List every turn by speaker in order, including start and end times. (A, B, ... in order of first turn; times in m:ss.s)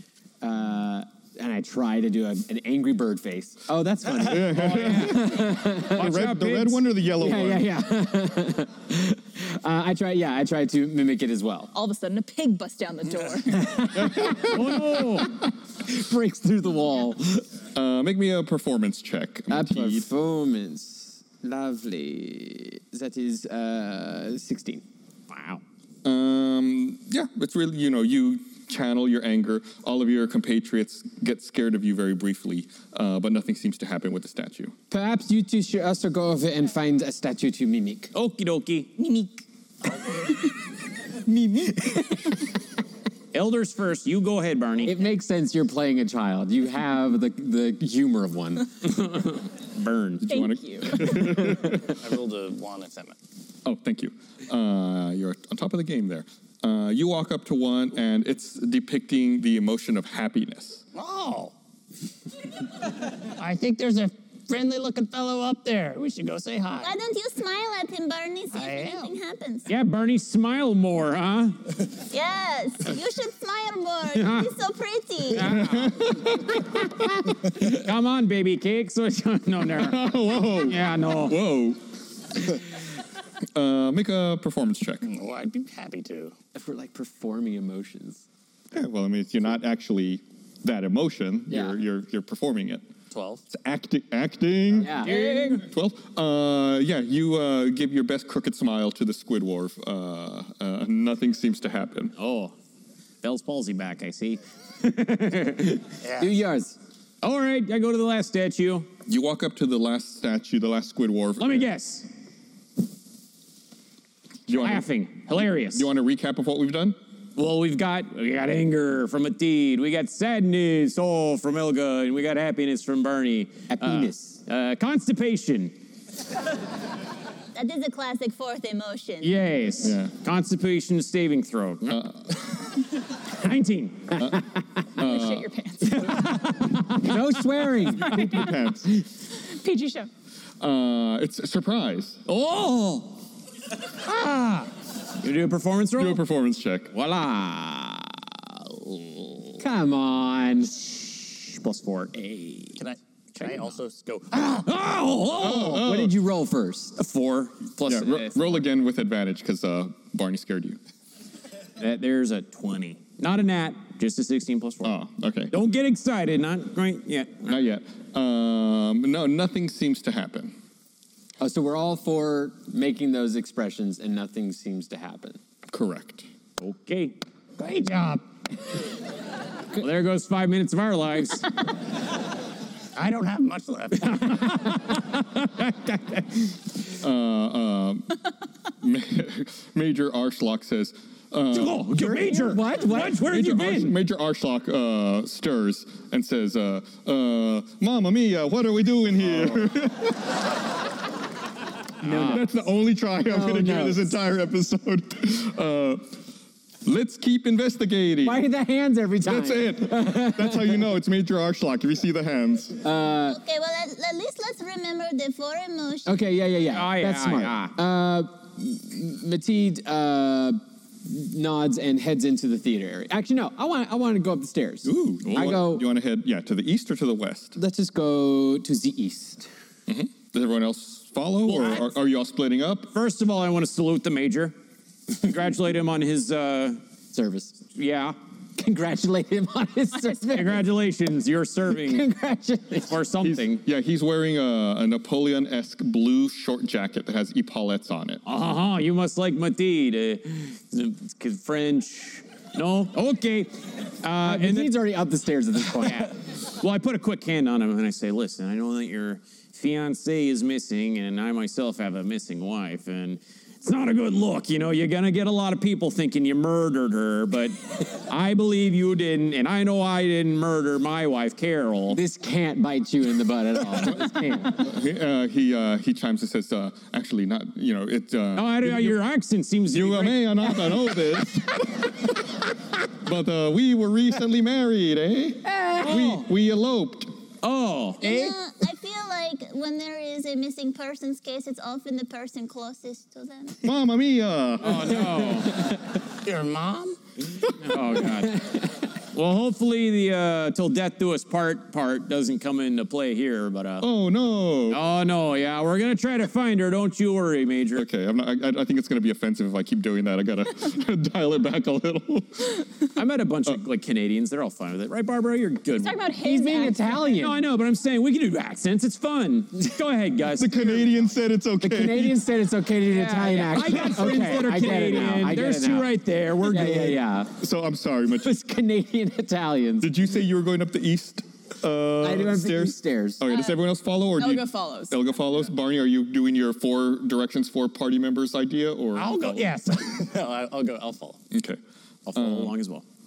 0:00.4-0:06.3 A
0:04.2-0:07.7 B
0:04.5-0:06.8 C
0:07.2-0:11.7 A
0:11.7-0:13.9 D
0:13.5-0:14.6 A
0:14.0-0:14.5 B
0:14.3-0:15.4 C
0:15.8-0:17.5 A
0:17.8-0:20.1 B
0:19.5-0:24.8 A
0:25.3-0:25.6 C
0:26.0-0:34.7 B
0:34.9-0:38.1 A
0:38.1-0:38.9 C
0:39.0-0:39.4 D
0:41.3-0:42.0 A
0:43.3-0:45.0 C
0:44.8-0:48.7 A
0:48.8-0:50.3 C
0:50.2-0:52.0 B
0:50.3-0:51.4 D
0:51.4-0:51.8 A
0:51.8-0:53.2 E
0:53.6-1:00.8 B
1:01.0-1:01.5 E
1:03.4-1:07.0 E
1:06.8-1:09.7 F
1:08.5-1:09.1 E
1:09.7-1:11.6 C
1:12.1-1:15.6 F
1:14.1-1:14.5 C
1:15.3-1:21.4 C
1:15.5-1:16.5 B
1:19.7-1:21.8 B
1:23.6-1:25.1 B
1:25.0-1:26.3 E
1:26.6-1:28.2 A
1:28.7-1:32.8 B
1:31.5-1:31.8 A
1:33.1-1:33.4 E
1:33.5-1:42.1 B
1:34.8-1:35.2 A
1:34.9-1:35.7 C
1:42.2-1:42.6 C
1:43.2-1:45.9 C
1:46.0-1:46.3 E
1:46.2-1:46.8 A
1:47.2-1:48.9 C
1:49.1-1:51.7 B
1:51.4-1:52.1 C
1:54.5-1:54.9 B
1:54.5-1:55.9 C
1:55.4-1:57.0 B
1:57.4-2:05.8 C
2:03.7-2:04.4 A
2:07.5-2:09.4 F
2:09.2-2:12.1 C
2:09.8-2:10.1 B
2:11.9-2:12.4 B
2:13.2-2:14.2 C
2:14.2-2:15.5 B
2:15.0-2:16.6 D
2:16.0-2:17.0 C
2:16.9-2:18.4 A
2:17.9-2:18.9 B
2:18.0-2:18.5 D
2:19.4-2:20.1 D
2:20.6-2:22.2 B
2:22.3-2:23.2 C
2:24.0-2:26.2 C
2:26.0-2:26.9 B
2:26.9-2:28.1 C
2:28.6-2:29.6 C
2:29.6-2:30.8 A
2:31.0-2:32.8 C
2:32.8-2:34.7 E
2:34.6-2:35.8 C
2:35.4-2:36.2 B
2:35.5-2:37.0 A
2:37.0-2:38.6 C
2:37.9-2:40.8 B
2:41.8-2:44.9 C
2:44.8-2:45.5 B
2:45.5-2:47.5 C
2:47.5-2:50.6 B
2:51.4-2:55.4 A
2:55.7-2:56.3 B
2:56.6-2:57.2 C
2:57.6-2:58.2 E
2:59.8-3:01.5 C
3:03.0-3:04.5 E
3:04.0-3:06.4 C
3:07.0-3:08.2 B
3:08.8-3:11.9 B
3:11.5-3:13.9 C
3:11.9-3:13.3 A
3:13.2-3:20.3 B
3:22.0-3:22.5 A
3:22.0-3:22.4 C
3:22.0-3:26.1 B
3:23.2-3:24.2 A
3:26.8-3:28.4 B
3:28.2-3:30.9 A
3:29.2-3:32.8 B
3:32.8-3:33.4 A
3:33.3-3:36.2 F
3:36.1-3:45.8 A
3:36.7-3:37.8 C
3:44.8-3:47.6 B
3:45.2-3:45.6 C
3:47.6-3:49.5 A
3:49.9-3:52.9 B
3:51.4-3:51.9 C
3:52.9-3:54.6 C
3:55.2-3:56.8 C
3:57.1-3:57.6 A
3:57.7-3:58.2 C
3:58.6-4:00.7 A
4:00.3-4:02.1 C
4:01.7-4:03.0 A
4:02.9-4:03.6 C
4:03.2-4:08.2 B
4:08.2-4:14.9 C
4:14.2-4:16.1 A
4:15.6-4:32.0 C
4:31.9-4:34.6 A
4:34.5-4:39.0 B
4:38.4-4:40.6 C
4:39.7-4:42.1 B
4:42.9-4:47.2 B
4:45.6-4:46.0 A
4:45.8-4:46.2 C
4:47.4-4:48.3 C
4:48.0-4:53.6 F
4:53.6-4:55.1 B
4:54.6-4:55.7 C
4:56.2-4:57.0 E
4:57.6-5:03.9 C
5:03.8-5:04.8 B
5:04.7-5:07.9 C
5:07.8-5:12.7 B
5:13.0-5:16.0 C
5:15.8-5:17.0 D
5:16.2-5:17.4 A
5:16.9-5:20.9 C
5:20.4-5:22.2 B
5:21.6-5:27.4 A
5:22.9-5:27.1 C
5:27.4-5:28.3 B
5:28.2-5:29.9 A
5:29.8-5:39.5 B
5:32.0-5:33.2 A
5:33.3-5:33.6 D
5:34.2-5:35.0 D
5:39.0-5:41.2 E
5:41.3-5:41.6 B
5:42.1-5:42.8 C
5:42.1-5:42.6 B